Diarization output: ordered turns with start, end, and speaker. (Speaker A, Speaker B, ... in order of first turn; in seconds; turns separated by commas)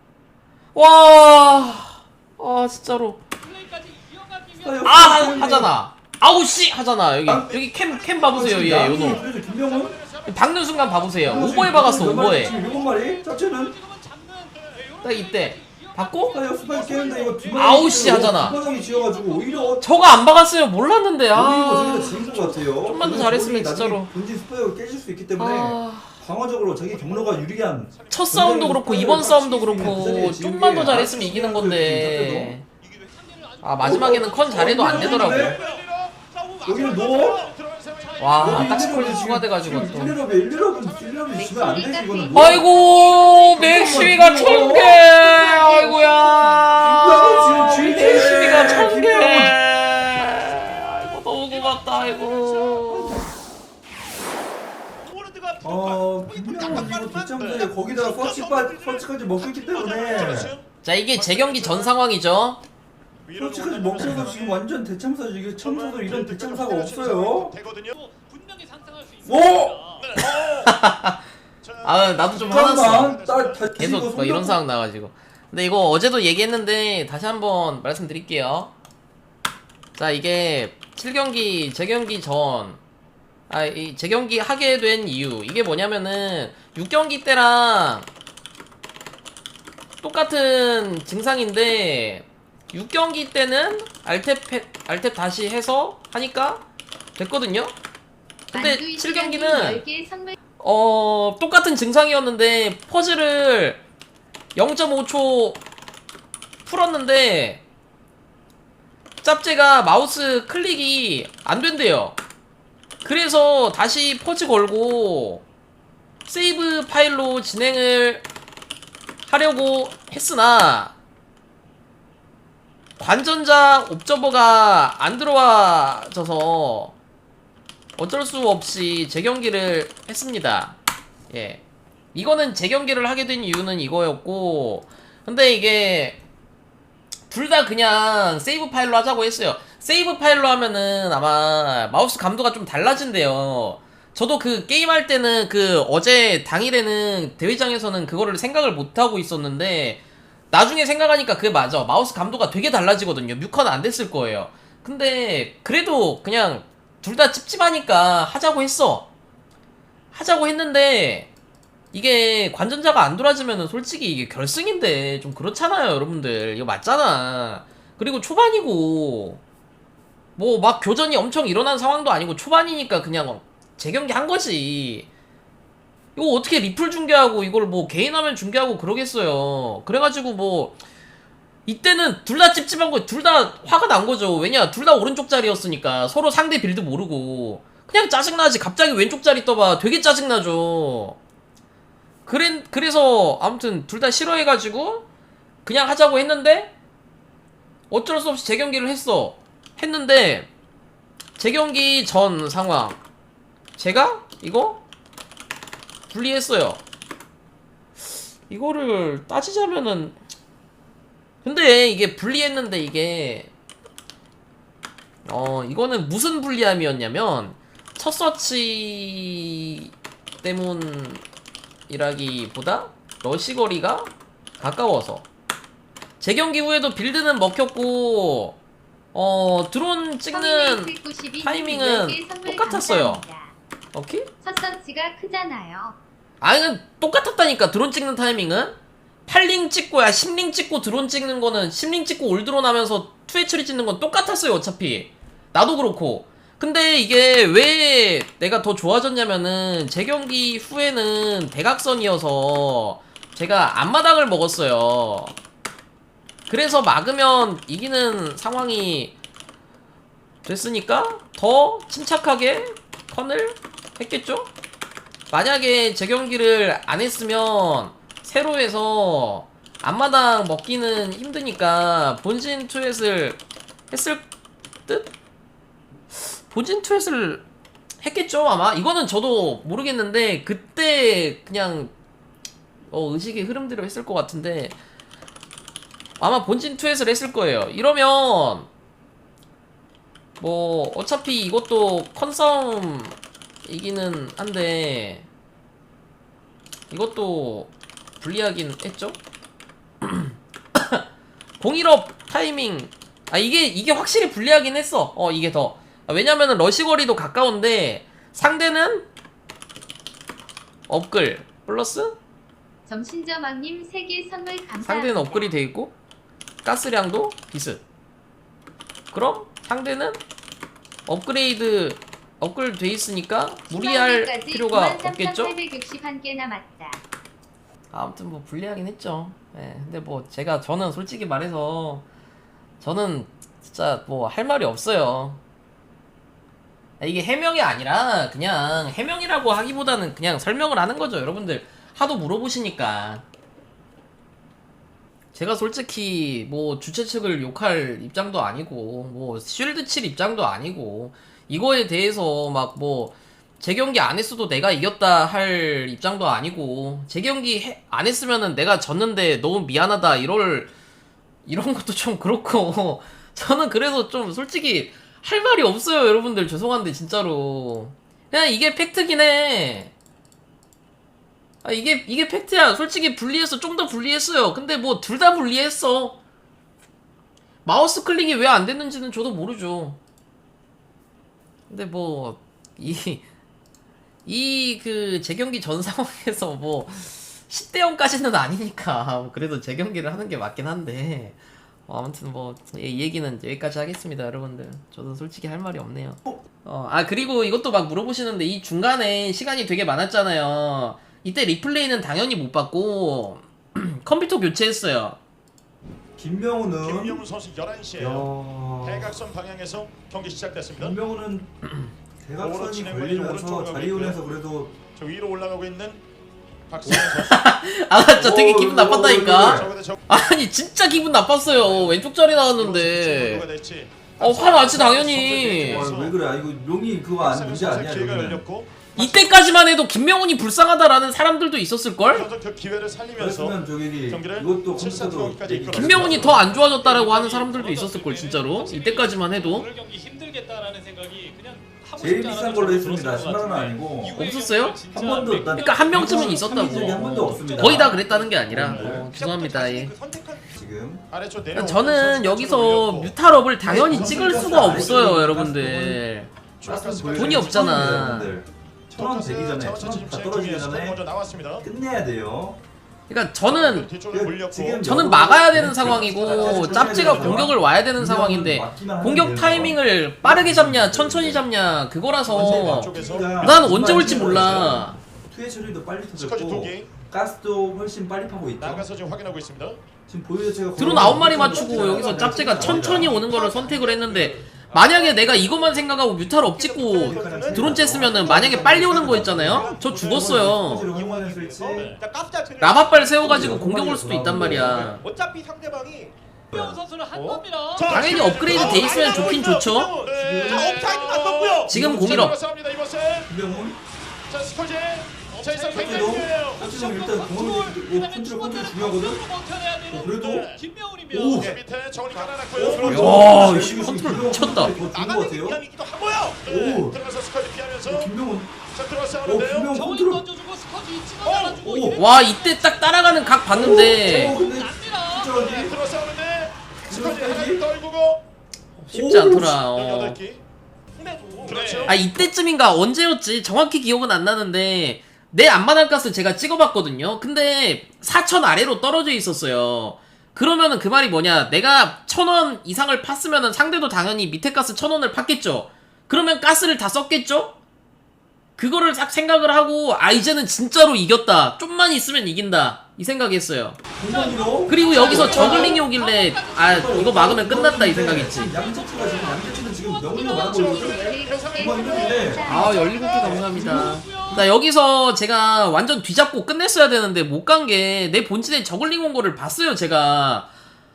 Speaker A: 0.7-3.2, Speaker B: 3.4-5.7, Speaker C: 4.6-5.7, Speaker A: 4.8-9.2, Speaker C: 7.2-7.6, Speaker D: 7.9-11.0, Speaker C: 8.2-10.0, Speaker A: 10.3-12.5, Speaker C: 11.2-13.7, Speaker B: 11.3-20.2, Speaker A: 15.0-16.4, Speaker C: 16.3-19.9, Speaker A: 17.6-18.6, Speaker A: 19.8-24.1, Speaker C: 21.3-32.6, Speaker B: 22.1-22.4, Speaker A: 25.4-26.2, Speaker D: 26.9-29.1, Speaker A: 28.1-32.6, Speaker D: 30.7-31.3, Speaker D: 32.8-33.1, Speaker B: 32.8-35.8, Speaker A: 33.6-35.5, Speaker C: 33.8-35.6, Speaker D: 34.8-39.2, Speaker C: 36.6-37.5, Speaker B: 38.0-39.3, Speaker A: 38.2-40.2, Speaker C: 38.4-42.7, Speaker D: 39.9-41.9, Speaker E: 41.4-46.8, Speaker A: 42.3-53.3, Speaker D: 42.6-43.5, Speaker B: 43.1-43.4, Speaker C: 43.5-45.0, Speaker B: 45.6-46.7, Speaker C: 46.8-49.6, Speaker D: 51.5-53.0, Speaker C: 52.9-53.3, Speaker D: 55.0-60.6, Speaker C: 55.6-60.5, Speaker A: 60.8-62.6, Speaker C: 63.4-67.5, Speaker D: 63.8-64.4, Speaker B: 67.9-70.1, Speaker C: 69.2-69.8, Speaker D: 70.1-70.5, Speaker A: 70.2-71.2, Speaker A: 71.8-73.2, Speaker D: 71.9-73.6, Speaker C: 72.4-74.6, Speaker A: 73.8-78.7, Speaker A: 80.0-82.8, Speaker A: 83.5-88.1, Speaker A: 90.0-96.6, Speaker A: 97.2-97.8, Speaker E: 98.5-100.4, Speaker A: 98.5-99.8, Speaker A: 100.6-103.8, Speaker A: 104.5-105.6, Speaker A: 106.7-107.6, Speaker A: 109.2-112.2, Speaker A: 113.0-115.4, Speaker A: 116.2-118.2, Speaker A: 119.2-121.0, Speaker A: 123.0-126.9, Speaker A: 128.0-130.8, Speaker A: 131.3-131.6, Speaker A: 132.1-136.2, Speaker A: 137.3-159.1, Speaker A: 160.1-161.3, Speaker A: 161.9-169.4, Speaker A: 170.4-175.1, Speaker A: 176.2-180.8, Speaker A: 181.7-191.2, Speaker A: 192.2-195.1, Speaker A: 195.7-196.7, Speaker A: 197.9-200.5, Speaker A: 201.4-203.0, Speaker A: 203.8-204.8, Speaker A: 206.1-206.8, Speaker A: 208.5-210.2, Speaker A: 211.4-213.5, Speaker A: 215.2-219.9, Speaker A: 220.4-221.2, Speaker A: 221.9-225.2, Speaker A: 226.2-228.6, Speaker A: 229.1-233.2, Speaker E: 230.3-233.6, Speaker A: 233.9-234.3, Speaker E: 234.4-236.0, Speaker A: 236.4-255.3, Speaker A: 256.5-259.1, Speaker A: 260.4-264.5, Speaker A: 265.3-273.4, Speaker A: 273.9-274.2, Speaker A: 276.1-277.4, Speaker A: 278.0-281.9, Speaker A: 282.9-284.8, Speaker A: 286.2-288.7, Speaker A: 290.4-293.1, Speaker A: 293.7-295.3, Speaker A: 296.9-299.2, Speaker A: 300.0-301.1, Speaker A: 301.6-309.1, Speaker A: 310.9-312.2, Speaker E: 312.9-315.6, Speaker A: 314.8-315.9, Speaker A: 316.6-317.8, Speaker A: 319.1-320.2, Speaker A: 321.1-325.6, Speaker E: 323.7-327.0, Speaker A: 327.9-332.1, Speaker A: 332.8-335.4, Speaker A: 337.0-343.2, Speaker A: 345.3-360.7, Speaker A: 361.5-369.9, Speaker A: 371.6-376.2, Speaker A: 377.6-380.0, Speaker A: 381.7-383.2, Speaker A: 384.2-405.2, Speaker C: 406.2-407.2, Speaker C: 408.0-409.2, Speaker C: 410.7-411.5, Speaker A: 411.6-411.9, Speaker C: 412.2-414.8, Speaker A: 416.9-423.5, Speaker C: 418.1-419.8, Speaker F: 423.1-423.4, Speaker A: 424.2-425.9, Speaker F: 424.5-425.4, Speaker D: 424.6-425.1, Speaker D: 425.6-425.8, Speaker C: 425.6-428.4, Speaker F: 427.7-428.0, Speaker A: 428.9-432.3, Speaker C: 433.2-436.5, Speaker F: 435.0-435.4, Speaker A: 435.7-439.7, Speaker D: 435.9-436.3, Speaker B: 436.5-447.4, Speaker C: 442.0-444.3, Speaker A: 444.2-444.8, Speaker C: 444.9-449.1, Speaker A: 445.5-449.9, Speaker D: 447.2-450.6, Speaker C: 450.5-451.1, Speaker F: 451.2-453.1, Speaker A: 451.5-456.3, Speaker C: 453.6-456.1, Speaker D: 453.8-454.6, Speaker C: 456.6-461.0, Speaker F: 456.6-457.5, Speaker A: 457.1-458.4, Speaker D: 457.5-457.9, Speaker F: 459.4-461.6, Speaker C: 461.6-462.6, Speaker A: 463.1-463.9, Speaker F: 463.5-464.9, Speaker C: 464.1-471.5, Speaker A: 464.8-475.0, Speaker D: 465.4-466.0, Speaker F: 466.1-467.4, Speaker D: 466.8-467.1, Speaker C: 472.3-478.9, Speaker F: 472.7-473.3, Speaker D: 473.3-473.9, Speaker F: 474.0-474.3, Speaker F: 476.3-476.9, Speaker F: 478.6-479.8, Speaker C: 480.1-483.3, Speaker A: 480.8-490.9, Speaker D: 480.9-485.4, Speaker D: 486.5-493.7, Speaker C: 487.0-492.0, Speaker A: 492.6-495.0, Speaker C: 493.2-495.0, Speaker D: 494.4-496.1, Speaker B: 496.5-498.4, Speaker C: 496.5-497.4, Speaker D: 497.4-502.2, Speaker F: 497.8-498.8, Speaker A: 497.8-499.9, Speaker C: 498.5-499.0, Speaker B: 498.9-499.5, Speaker F: 500.0-501.7, Speaker C: 500.2-500.9, Speaker C: 501.7-502.4, Speaker A: 501.7-502.4, Speaker F: 502.2-503.2, Speaker C: 503.3-503.8, Speaker F: 504.3-506.6, Speaker B: 505.5-511.6, Speaker D: 505.7-506.3, Speaker C: 505.7-509.2, Speaker C: 509.9-510.6, Speaker C: 511.1-511.6, Speaker F: 511.4-513.9, Speaker D: 512.1-516.5, Speaker C: 512.5-515.6, Speaker A: 512.9-514.8, Speaker C: 516.5-517.0, Speaker F: 516.5-518.1, Speaker C: 517.8-518.5, Speaker F: 518.8-519.7, Speaker C: 519.2-520.2, Speaker B: 519.7-525.7, Speaker F: 521.3-521.6, Speaker C: 521.6-522.0, Speaker A: 522.0-524.4, Speaker C: 523.5-525.8, Speaker F: 525.7-528.2, Speaker C: 526.9-527.6, Speaker A: 528.8-530.2, Speaker C: 528.9-529.6, Speaker F: 529.8-530.4, Speaker D: 531.0-532.0, Speaker B: 531.4-532.0, Speaker F: 531.4-532.0, Speaker A: 531.9-547.6, Speaker A: 548.6-553.8, Speaker C: 554.0-555.9, Speaker B: 554.0-561.8, Speaker A: 554.7-558.6, Speaker C: 556.6-564.0, Speaker E: 560.1-563.2, Speaker D: 560.9-562.4, Speaker F: 561.3-562.3, Speaker B: 562.4-564.5, Speaker A: 562.4-570.5